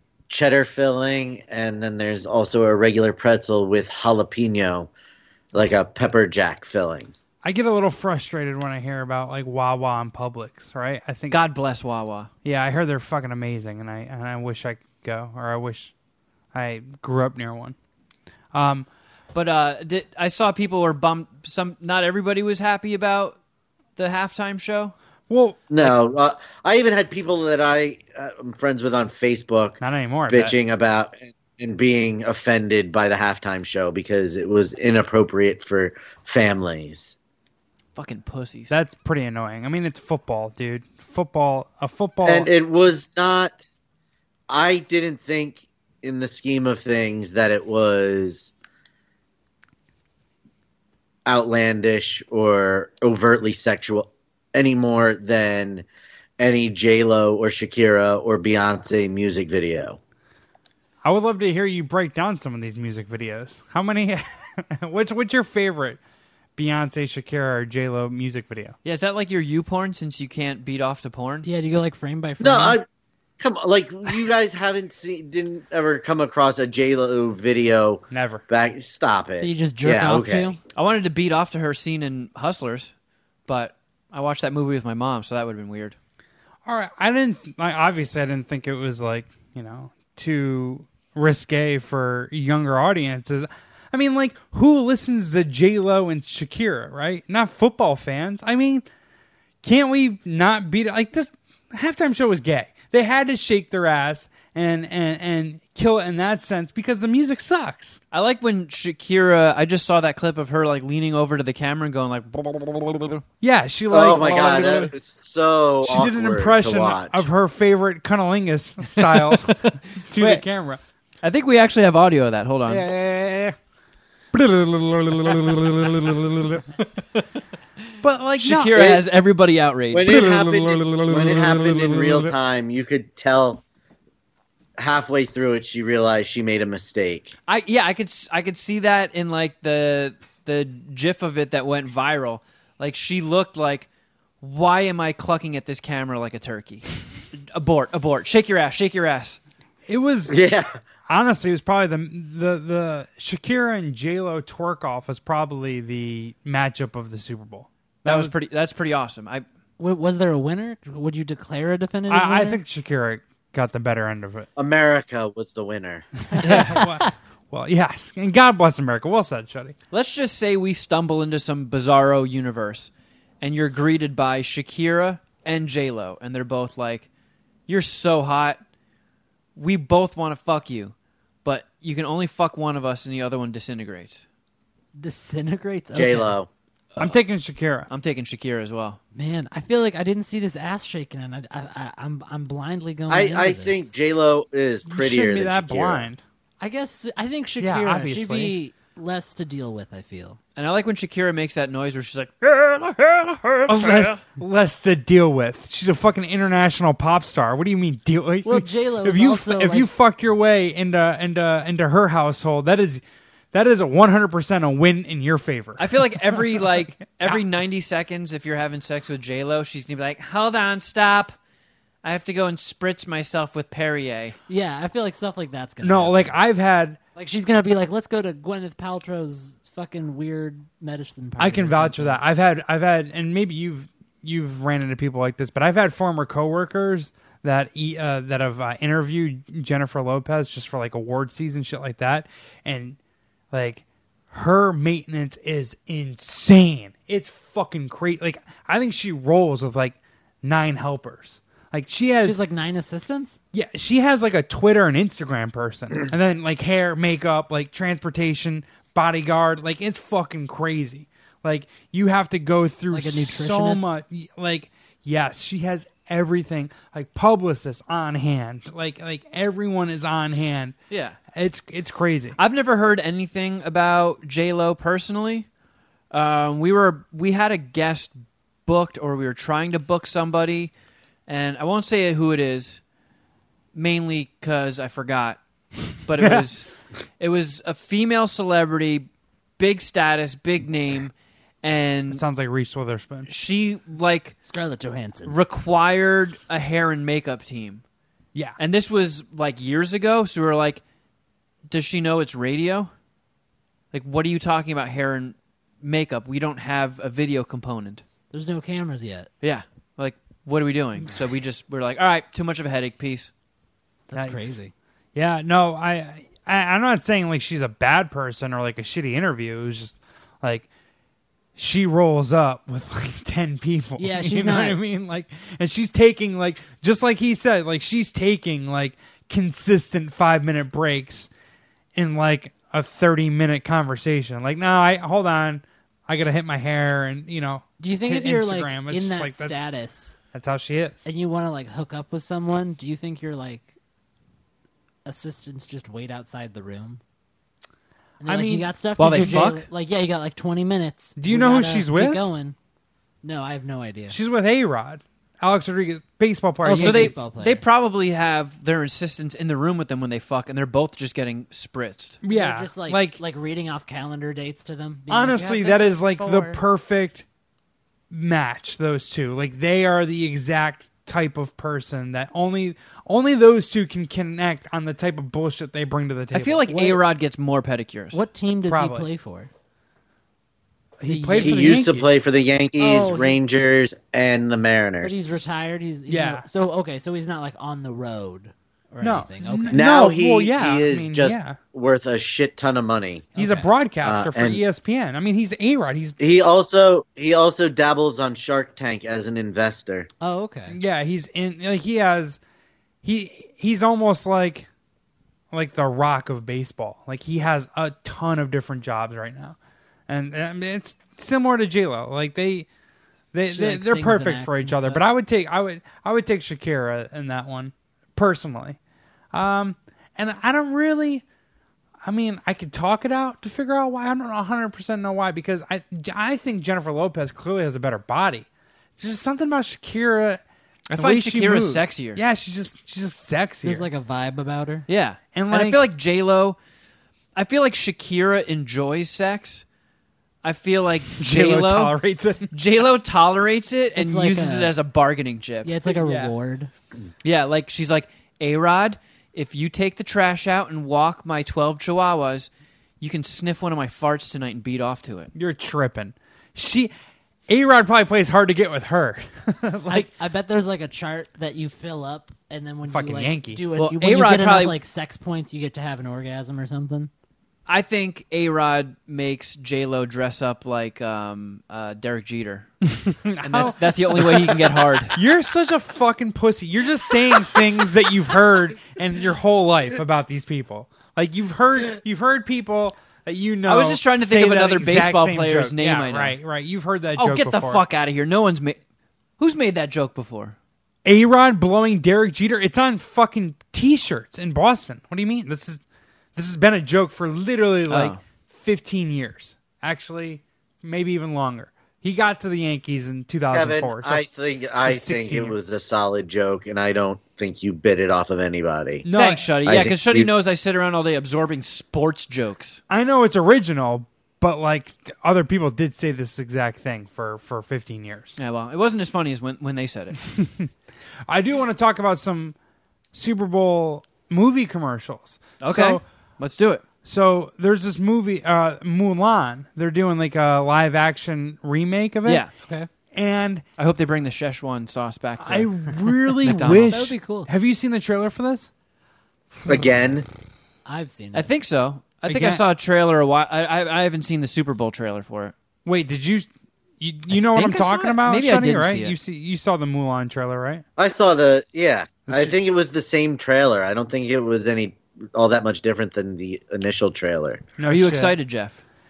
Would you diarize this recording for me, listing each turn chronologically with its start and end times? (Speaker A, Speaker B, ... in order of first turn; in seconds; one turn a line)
Speaker A: 0.3-4.9
Speaker A: 5.5-7.1
Speaker B: 7.4-11.4
Speaker C: 11.3-12.3
Speaker B: 12.4-15.9
Speaker B: 16.5-17.8
Speaker B: 18.5-18.9
Speaker C: 19.3-23.4
Speaker C: 23.9-24.9
Speaker B: 25.3-26.0
Speaker A: 25.7-37.1
Speaker B: 29.8-30.6
Speaker C: 38.0-38.7
Speaker B: 38.7-42.5
Speaker A: 42.2-43.6
Speaker A: 44.5-48.5
Speaker A: 51.2-55.9
Speaker A: 56.4-60.0
Speaker B: 61.0-66.0
Speaker B: 66.5-68.7
Speaker C: 68.8-71.5
Speaker D: 71.4-72.8
Speaker A: 72.4-72.8
Speaker A: 73.4-80.5
Speaker B: 78.1-78.4
Speaker D: 79.4-80.6
Speaker C: 80.7-82.9
Speaker C: 83.5-86.0
Speaker B: 86.7-98.8
Speaker B: 99.6-108.0
Speaker C: 108.1-113.2
Speaker B: 113.4-114.9
Speaker A: 113.9-117.2
Speaker B: 115.8-120.8
Speaker C: 118.9-120.4
Speaker C: 121.2-122.9
Speaker B: 122.7-123.5
Speaker B: 124.3-126.7
Speaker C: 125.5-125.9
Speaker B: 128.0-129.0
Speaker C: 128.4-130.2
Speaker A: 129.9-133.6
Speaker B: 130.1-132.3
Speaker A: 134.8-137.3
Speaker C: 137.5-143.9
Speaker C: 144.4-149.4
Speaker B: 149.9-150.3
Speaker A: 150.3-150.7
Speaker B: 151.1-158.3
Speaker C: 158.0-159.4
Speaker D: 159.8-162.6
Speaker B: 162.1-164.5
Speaker A: 164.6-166.2
Speaker B: 166.3-169.7
Speaker D: 166.4-167.1
Speaker C: 166.4-166.8
Speaker C: 169.9-172.9
Speaker C: 173.4-177.1
Speaker C: 177.7-178.6
Speaker C: 179.6-184.2
Speaker D: 184.9-186.3
Speaker A: 185.9-186.5
Speaker B: 187.0-187.9
Speaker C: 187.9-189.0
Speaker D: 189.1-193.9
Speaker A: 193.1-196.1
Speaker B: 194.8-196.2
Speaker D: 196.6-200.4
Speaker B: 197.6-198.5
Speaker C: 200.6-204.2
Speaker B: 203.7-217.4
Speaker D: 208.4-209.9
Speaker C: 215.8-221.3
Speaker C: 222.0-224.4
Speaker D: 224.5-226.3
Speaker B: 225.8-227.0
Speaker D: 227.2-232.2
Speaker B: 231.4-243.0
Speaker B: 243.5-252.4
Speaker D: 252.2-253.4
Speaker B: 253.5-270.8
Speaker D: 262.9-263.9
Speaker C: 270.9-271.2
Speaker B: 271.3-272.4
Speaker C: 272.4-275.4
Speaker C: 276.1-280.7
Speaker C: 281.3-282.8
Speaker C: 283.7-285.4
Speaker C: 286.0-286.7
Speaker B: 286.2-286.5
Speaker C: 287.2-292.2
Speaker B: 292.1-293.3
Speaker C: 293.3-294.4
Speaker D: 294.4-295.4
Speaker C: 295.2-297.8
Speaker C: 298.6-300.8
Speaker C: 301.7-302.9
Speaker C: 303.9-308.0
Speaker D: 308.3-309.3
Speaker C: 309.4-313.3
Speaker D: 314.1-314.7
Speaker B: 314.1-314.6
Speaker B: 315.1-320.7
Speaker B: 321.6-331.3
Speaker D: 324.0-324.8
Speaker B: 331.9-339.6
Speaker D: 337.8-340.2
Speaker B: 340.3-341.0
Speaker D: 341.0-343.7
Speaker D: 345.0-347.0
Speaker D: 348.2-352.6
Speaker B: 348.2-349.5
Speaker C: 349.0-349.6
Speaker B: 351.2-352.2
Speaker D: 353.2-354.2
Speaker B: 354.1-357.1
Speaker D: 356.6-357.6
Speaker C: 356.7-362.2
Speaker B: 362.2-363.2
Speaker D: 362.3-366.6
Speaker B: 365.1-367.2
Speaker B: 368.1-376.7
Speaker C: 376.3-378.2
Speaker D: 378.1-379.5
Speaker B: 378.7-379.1
Speaker B: 381.0-382.1
Speaker D: 381.1-381.8
Speaker A: 381.4-385.2
Speaker D: 382.8-383.4
Speaker D: 385.0-389.8
Speaker B: 386.1-386.4
Speaker B: 389.0-391.6
Speaker A: 389.7-393.3
Speaker D: 393.3-393.7
Speaker B: 393.4-396.2
Speaker A: 394.0-394.6
Speaker A: 396.2-400.1
Speaker D: 400.2-400.8
Speaker B: 400.7-402.4
Speaker B: 403.0-404.7
Speaker B: 405.5-409.6
Speaker B: 410.1-412.7
Speaker B: 413.3-418.8
Speaker D: 413.5-415.0
Speaker B: 419.3-421.2
Speaker B: 422.0-428.5
Speaker B: 429.0-430.4
Speaker C: 430.9-432.2
Speaker B: 430.9-433.9
Speaker D: 433.6-434.9
Speaker C: 434.9-436.6
Speaker B: 435.3-435.8
Speaker C: 437.3-439.6
Speaker C: 440.4-442.0
Speaker B: 441.2-442.5
Speaker C: 442.5-445.7
Speaker D: 443.9-444.8
Speaker D: 445.6-446.7
Speaker B: 445.9-446.3
Speaker C: 447.2-452.5
Speaker C: 453.0-455.3
Speaker B: 455.3-456.9
Speaker B: 457.5-460.1
Speaker D: 459.9-467.1
Speaker B: 462.9-463.6
Speaker C: 463.8-464.8
Speaker C: 467.7-472.8
Speaker B: 473.1-487.8
Speaker C: 473.4-475.1
Speaker C: 483.7-486.4
Speaker C: 487.2-488.8
Speaker C: 489.4-490.6
Speaker B: 491.0-495.8
Speaker B: 496.4-504.2
Speaker C: 497.9-498.2
Speaker A: 503.5-509.1
Speaker B: 504.8-505.6
Speaker B: 509.0-509.8
Speaker C: 509.1-512.8
Speaker A: 509.6-510.3
Speaker B: 512.9-518.4
Speaker C: 518.4-520.2
Speaker B: 520.3-520.7
Speaker B: 521.3-522.5
Speaker B: 523.1-526.0
Speaker C: 525.6-526.8
Speaker B: 527.0-532.4
Speaker C: 532.2-532.5
Speaker D: 532.6-532.9
Speaker B: 533.1-533.6
Speaker C: 533.8-535.9
Speaker B: 535.4-538.7
Speaker C: 536.4-537.1
Speaker D: 536.6-537.5
Speaker A: 539.7-540.2
Speaker D: 540.9-541.5
Speaker C: 541.3-545.5
Speaker B: 542.2-542.6
Speaker B: 545.9-546.5
Speaker B: 547.0-550.8
Speaker C: 547.3-549.1
Speaker A: 551.0-557.6
Speaker B: 552.3-552.5
Speaker B: 557.8-558.4
Speaker C: 557.9-558.8